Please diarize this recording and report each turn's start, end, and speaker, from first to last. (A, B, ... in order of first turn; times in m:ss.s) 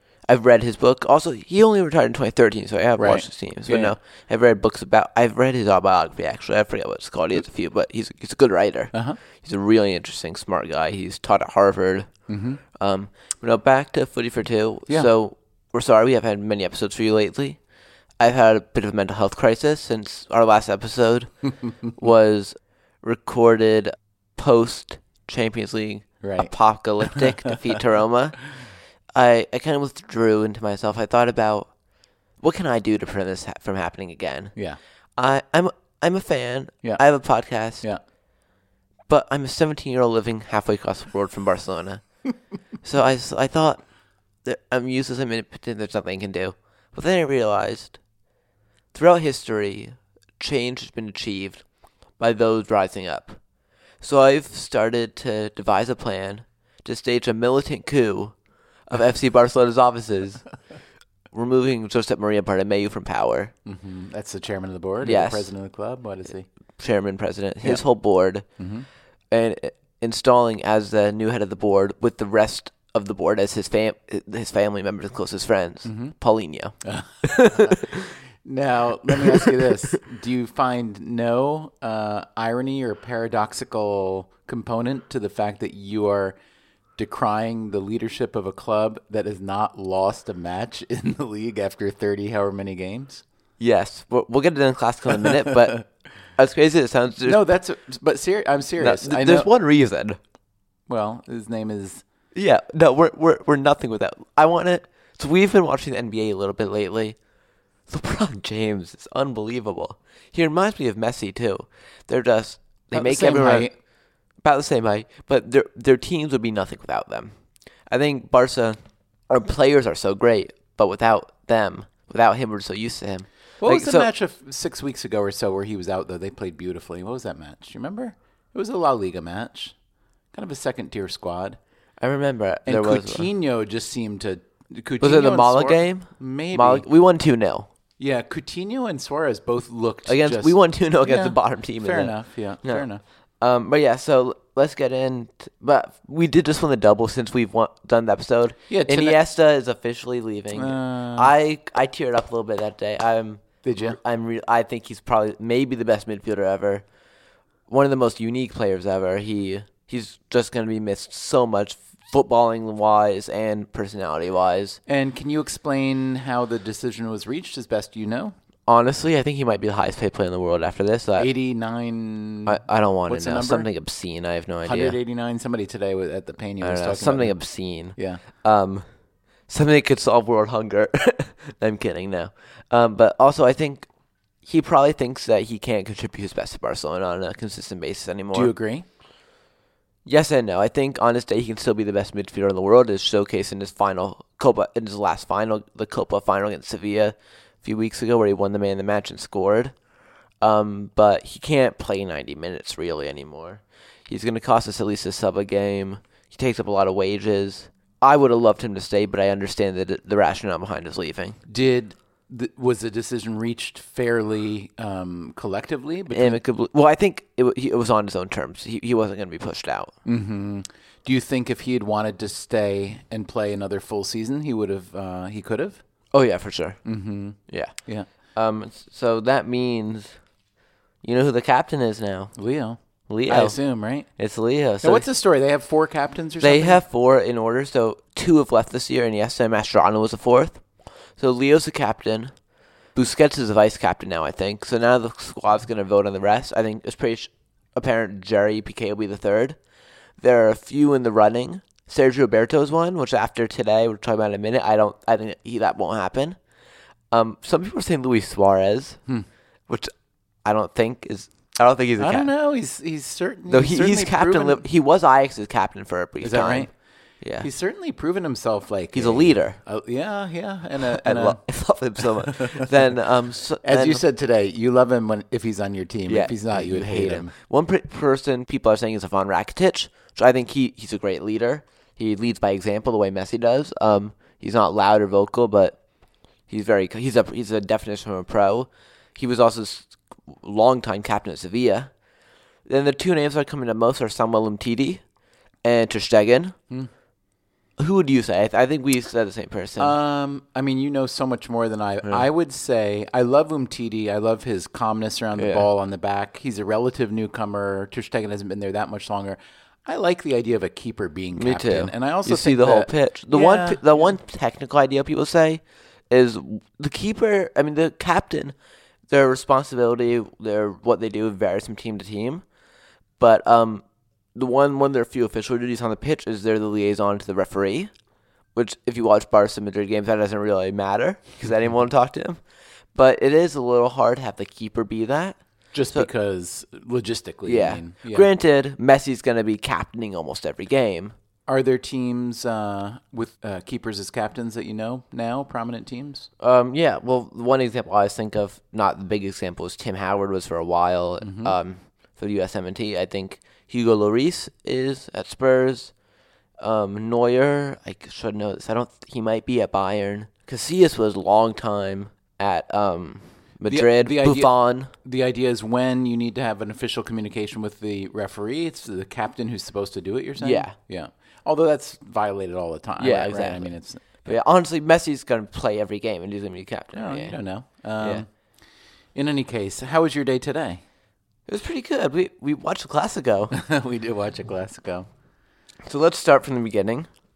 0:00.3-0:12.1 A
0:03.0-0:03.9 B
0:08.9-0:09.2 B
0:12.3-0:12.6 B
0:12.8-0:17.6 A
0:18.2-0:21.3 A
0:21.9-0:28.4 A
0:26.2-0:27.5 B
0:29.2-0:31.7 A
0:32.4-0:34.5 A
0:35.2-0:37.8 A
0:39.1-0:42.0 A
0:42.8-0:43.8 A
0:44.4-0:48.0 A
0:48.9-0:51.6 A
0:52.2-0:53.4 A
0:54.0-0:58.3 A
0:58.9-1:00.4 A
1:01.3-1:03.5 A
1:03.6-1:06.5 B
1:05.0-1:05.5 A
1:06.8-1:08.4 A
1:08.6-1:08.9 B
1:09.3-1:18.1 A
1:15.8-1:16.1 B
1:16.8-1:26.4 B
1:19.2-1:19.7 A
1:27.0-1:33.2 B
1:33.6-1:37.4 A
1:37.2-1:39.5 B
1:38.8-1:40.2 A
1:40.9-1:42.0 B
1:42.3-1:47.2 A
1:47.9-1:53.7 A
1:52.9-1:53.7 B
1:54.4-1:57.3 A
1:57.9-1:58.8 A
1:59.3-2:04.1 A
2:03.6-2:09.7 B
2:10.3-2:11.6 B
2:12.0-2:13.3 A
2:12.6-2:16.8 B
2:15.0-2:17.7 A
2:18.0-2:23.0 B
2:20.1-2:22.8 A
2:23.4-2:36.8 A
2:28.7-2:29.2 B
2:30.5-2:31.3 B
2:33.6-2:34.0 B
2:37.7-2:44.8 A
2:44.9-2:48.3 B
2:48.7-2:51.3 A
2:51.2-2:53.7 B
2:52.4-2:55.0 A
2:54.6-2:57.3 B
2:56.6-2:58.8 A
2:58.0-2:58.2 B
2:59.5-3:03.9 A
3:04.4-3:08.5 A
3:08.3-3:08.8 B
3:10.0-3:19.7 A
3:20.4-3:31.4 A
3:31.5-3:36.4 B
3:36.1-3:39.9 A
3:40.0-3:45.8 B
3:46.1-3:46.8 A
3:46.8-3:48.1 B
3:47.5-3:47.7 A
3:48.3-3:50.1 A
3:51.0-3:52.3 A
3:52.3-3:52.8 B
3:53.1-3:53.6 A
3:53.3-3:54.1 B
3:54.2-3:55.0 A
3:54.8-3:56.8 B
3:56.4-4:00.6 A
4:01.2-4:02.3 A
4:02.9-4:09.6 A
4:10.2-4:16.4 A
4:17.1-4:19.0 A
4:20.4-4:22.3 A
4:22.0-4:24.6 B
4:23.5-4:26.7 A
4:26.2-4:26.7 B
4:27.2-4:27.5 A
4:27.4-4:31.4 B
4:28.9-4:29.6 A
4:30.8-4:34.0 A
4:32.0-4:32.7 B
4:33.6-4:37.3 B
4:36.1-4:45.8 A
4:46.5-4:51.9 A
4:52.6-4:55.0 A
4:55.6-4:56.6 A
4:57.8-5:00.0 A
4:59.8-5:14.1 B
5:05.4-5:05.6 A
5:11.4-5:18.5 A
5:19.1-5:22.4 A
5:23.2-5:23.8 A
5:24.3-5:27.9 A
5:28.5-5:32.4 A
5:32.9-5:35.4 A
5:35.7-5:38.3 B
5:37.4-5:41.1 A
5:41.5-5:46.3 B
5:46.4-5:55.9 A
5:51.2-5:51.5 B
5:56.6-6:04.9 A
6:03.7-6:14.3 B
6:10.4-6:10.7 A
6:13.0-6:13.7 A
6:14.2-6:17.4 A
6:16.9-6:18.3 B
6:18.0-6:18.2 A
6:19.1-6:20.8 B
6:21.5-6:23.5 A
6:23.5-6:25.1 B
6:25.8-6:27.1 A